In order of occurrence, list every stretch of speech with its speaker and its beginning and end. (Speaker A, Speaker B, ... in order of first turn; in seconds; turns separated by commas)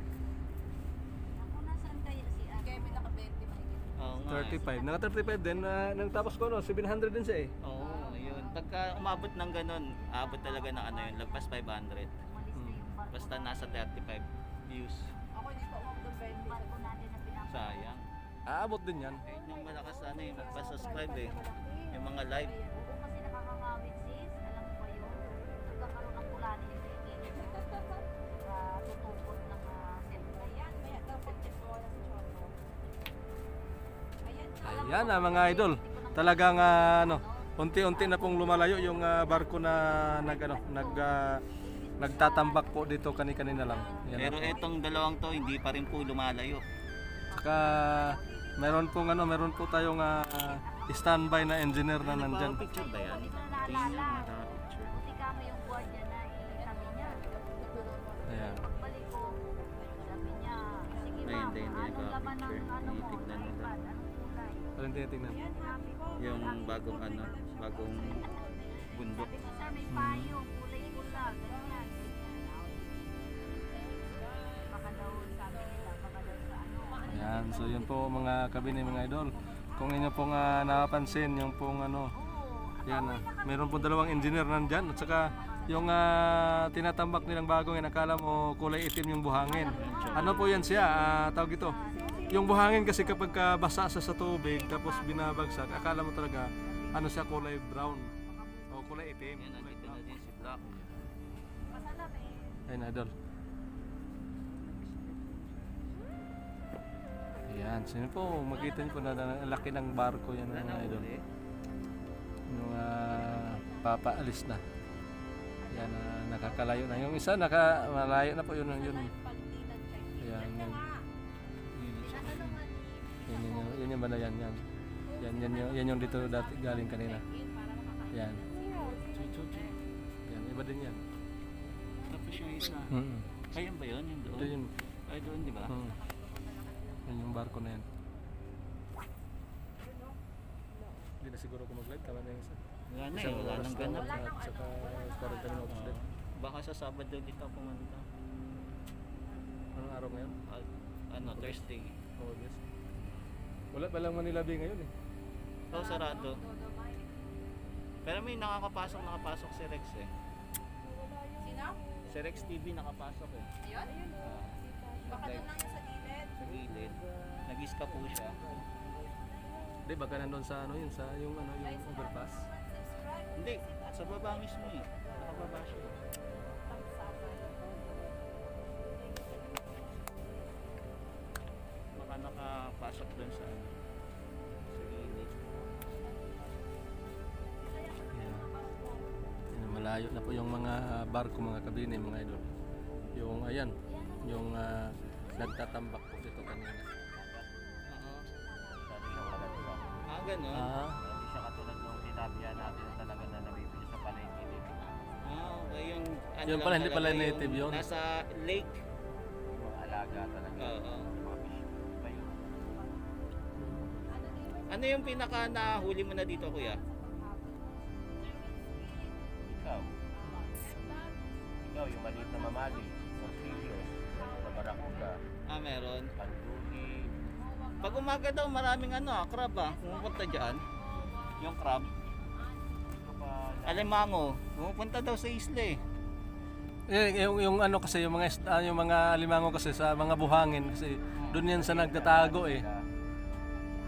Speaker A: 1.3-3.1, Speaker B: 3.0-3.9, Speaker C: 4.0-4.6, Speaker D: 4.3-7.5, Speaker A: 4.3-5.5, Speaker C: 7.6-12.1, Speaker A: 10.2-11.3, Speaker A: 12.3-13.8, Speaker D: 12.6-12.8, Speaker C: 13.1-15.1, Speaker B: 15.4-16.6, Speaker A: 16.1-17.9, Speaker C: 17.5-18.0, Speaker D: 18.5-19.2, Speaker C: 19.2-21.4, Speaker C: 21.9-22.6, Speaker A: 22.7-27.6, Speaker A: 28.4-31.4, Speaker B: 30.7-32.5, Speaker B: 34.3-34.6, Speaker D: 34.6-41.3, Speaker A: 34.8-37.5, Speaker A: 38.1-39.3, Speaker A: 40.4-40.8, Speaker A: 41.7-44.8, Speaker D: 42.0-44.6, Speaker C: 44.2-46.6, Speaker D: 47.3-52.6, Speaker A: 47.4-48.3, Speaker A: 50.3-51.9, Speaker C: 52.0-55.0, Speaker A: 52.6-54.3, Speaker A: 54.9-57.9, Speaker B: 56.8-58.3, Speaker D: 58.3-58.6, Speaker A: 58.6-59.3, Speaker A: 60.0-64.7, Speaker B: 60.8-61.3, Speaker C: 61.2-63.7, Speaker D: 64.8-65.4, Speaker B: 65.4-66.2, Speaker A: 65.6-67.3, Speaker C: 66.2-68.3, Speaker A: 68.0-73.2, Speaker C: 68.9-69.3, Speaker D: 69.9-70.4, Speaker B: 74.1-74.6, Speaker A: 74.7-77.1, Speaker D: 77.0-82.1, Speaker B: 77.1-77.8, Speaker A: 82.2-85.9, Speaker D: 82.9-98.1, Speaker A: 89.5-92.4, Speaker C: 89.6-90.7, Speaker A: 94.5-95.8, Speaker A: 96.6-98.9, Speaker D: 98.7-100.1, Speaker C: 99.4-100.8, Speaker B: 102.0-102.3, Speaker D: 102.7-103.1, Speaker D: 107.5-111.1, Speaker C: 110.5-111.2, Speaker D: 112.5-114.6, Speaker D: 115.7-119.1, Speaker B: 119.3-121.0, Speaker D: 120.2-120.9, Speaker C: 121.8-122.6, Speaker D: 122.1-122.6, Speaker B: 122.7-123.3, Speaker D: 123.2-124.6, Speaker D: 125.2-127.2, Speaker B: 125.2-125.7, Speaker B: 127.4-129.7, Speaker D: 128.1-128.4, Speaker C: 129.2-129.6, Speaker D: 130.3-131.0, Speaker C: 132.1-132.9, Speaker D: 132.9-133.3, Speaker C: 133.5-134.5, Speaker D: 134.3-134.7, Speaker C: 135.1-135.8, Speaker D: 135.6-136.0, Speaker B: 136.5-137.0, Speaker D: 137.0-137.9, Speaker D: 141.2-142.6, Speaker C: 142.9-144.2, Speaker D: 143.1-146.0, Speaker B: 144.2-145.5, Speaker C: 145.7-148.1, Speaker D: 149.7-150.3, Speaker C: 150.5-152.0, Speaker D: 151.2-151.6, Speaker D: 152.2-152.6, Speaker D: 153.7-154.9, Speaker C: 155.7-156.4, Speaker B: 156.3-157.0, Speaker C: 158.1-160.1, Speaker B: 161.4-161.8, Speaker C: 162.1-163.5, Speaker C: 164.2-165.6, Speaker B: 165.1-166.3, Speaker C: 166.3-168.4, Speaker D: 169.8-172.5, Speaker B: 171.9-173.3, Speaker C: 173.3-176.0, Speaker B: 176.9-177.5, Speaker C: 181.9-183.7, Speaker C: 184.7-185.6, Speaker D: 188.1-188.5, Speaker D: 189.5-192.5, Speaker D: 193.2-196.9, Speaker A: 193.9-194.3, Speaker E: 197.2-197.5, Speaker C: 197.9-198.3, Speaker E: 198.8-200.1, Speaker C: 200.1-200.7, Speaker D: 200.5-201.0, Speaker E: 201.0-204.9, Speaker C: 205.2-208.8, Speaker D: 206.5-207.9, Speaker E: 209.5-212.6, Speaker C: 210.6-211.1, Speaker D: 213.6-213.9, Speaker B: 214.3-214.7, Speaker C: 214.7-216.8, Speaker E: 219.4-219.9, Speaker B: 220.4-221.0, Speaker E: 221.6-225.2, Speaker B: 224.2-224.9, Speaker C: 225.5-226.1, Speaker E: 226.2-227.1, Speaker C: 227.8-230.6, Speaker C: 231.4-231.9, Speaker E: 232.9-234.0, Speaker C: 233.7-235.8, Speaker D: 236.9-242.7, Speaker C: 241.2-241.5, Speaker E: 241.4-242.8